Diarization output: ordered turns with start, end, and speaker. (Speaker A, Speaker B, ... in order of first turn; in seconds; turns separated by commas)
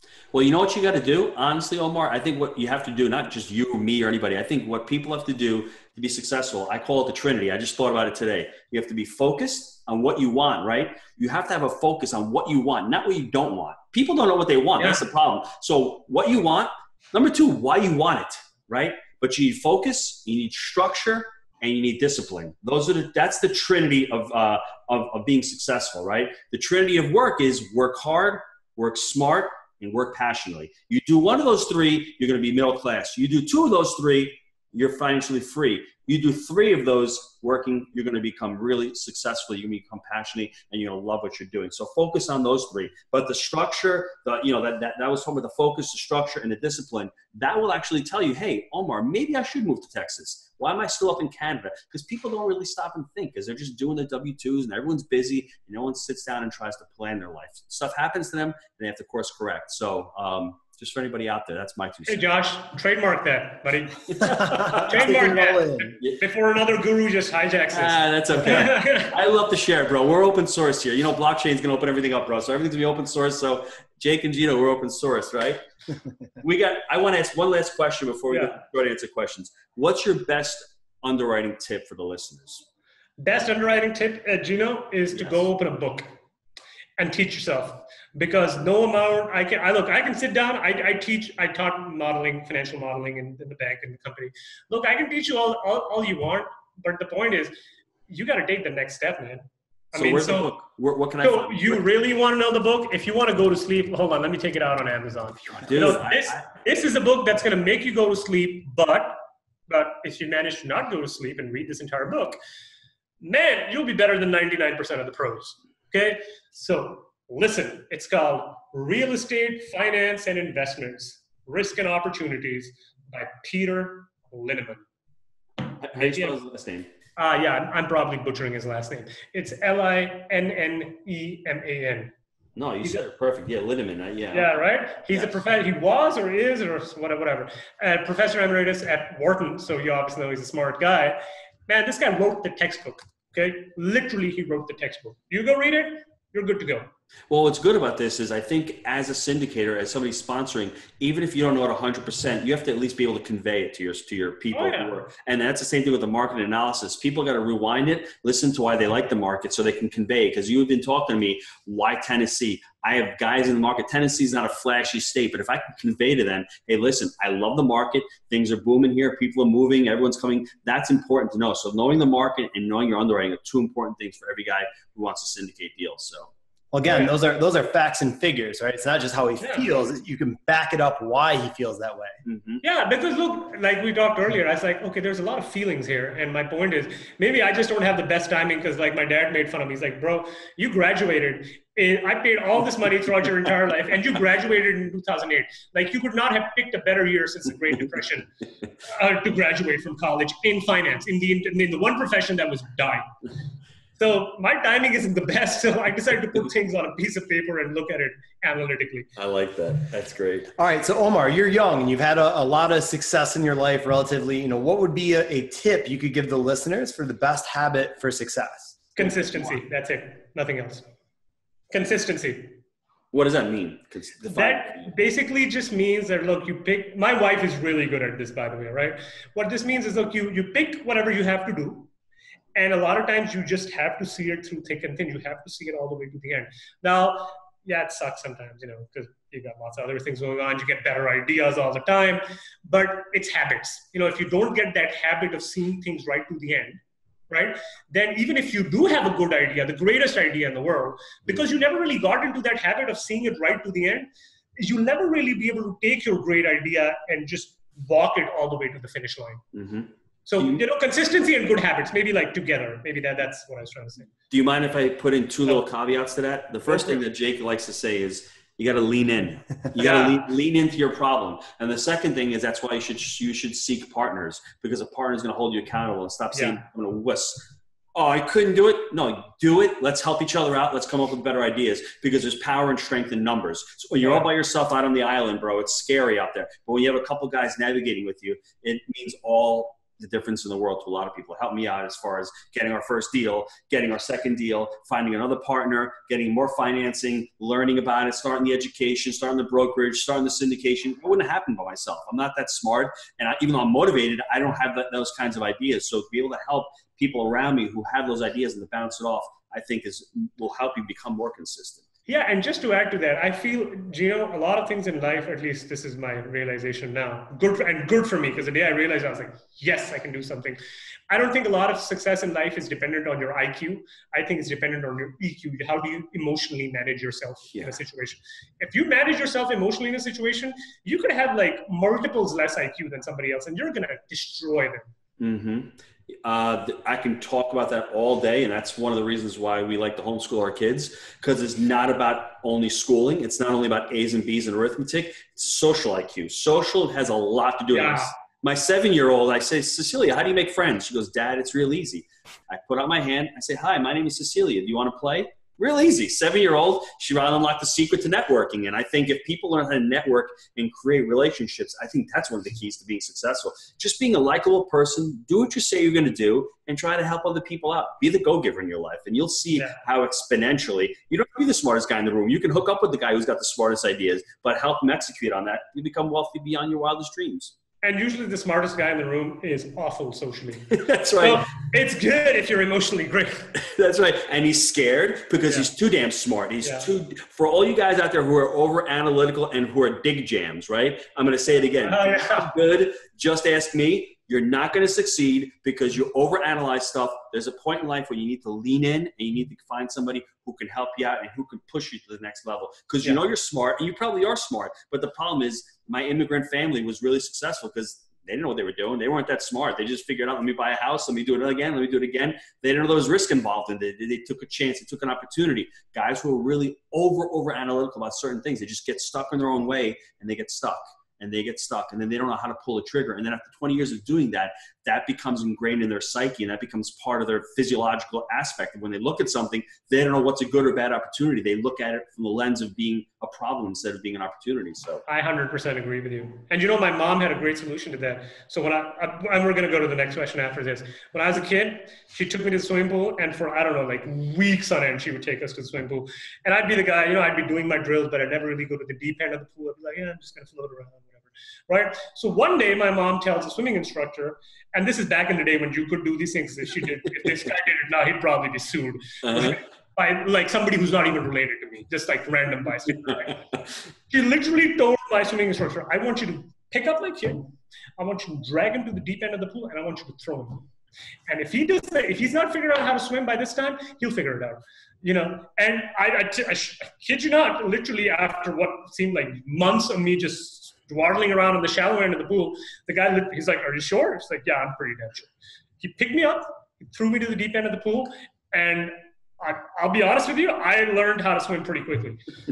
Speaker A: 0.3-62.2, Speaker B: 14.8-15.0, Speaker B: 62.1-69.1, Speaker A: 64.2-65.0, Speaker C: 64.8-65.9, Speaker A: 67.7-75.6, Speaker A: 76.4-82.6, Speaker B: 78.3-78.6, Speaker B: 83.2-86.1, Speaker B: 87.0-97.5, Speaker B: 98.1-100.5, Speaker A: 100.0-101.8, Speaker B: 101.2-112.4, Speaker A: 105.6-106.5, Speaker B: 113.2-124.8, Speaker A: 125.8-126.9, Speaker B: 126.0-126.3, Speaker B: 127.2-132.1, Speaker A: 132.6-135.4, Speaker B: 134.3-146.9, Speaker A: 147.3-176.3, Speaker B: 154.5-154.9, Speaker C: 176.7-182.2, Speaker B: 176.9-177.1, Speaker B: 179.4-179.7, Speaker A: 182.2-182.6, Speaker B: 182.6-198.3, Speaker B: 198.8-203.2, Speaker B: 204.0-209.1, Speaker A: 209.2-210.5, Speaker C: 210.6-218.8, Speaker B: 219.0-220.8, Speaker A: 219.0-219.6, Speaker B: 221.7-222.6, Speaker A: 223.1-224.9, Speaker B: 224.3-231.9, Speaker B: 232.6-259.4, Speaker A: 259.5-260.6, Speaker B: 260.3-264.1, Speaker A: 264.3-311.8, Speaker B: 266.7-267.0, Speaker B: 269.8-270.2, Speaker B: 276.3-276.6, Speaker B: 312.1-320.6, Speaker B: 321.1-334.9, Speaker A: 335.2-377.5, Speaker B: 347.7-348.1, Speaker B: 377.8-383.5, Speaker A: 380.7-381.4, Speaker A: 383.6-435.0, Speaker B: 385.4-385.7, Speaker B: 386.6-386.9, Speaker B: 391.8-392.5, Speaker B: 435.1-463.4, Speaker A: 459.2-459.6, Speaker B: 464.1-470.7, Speaker B: 471.3-492.2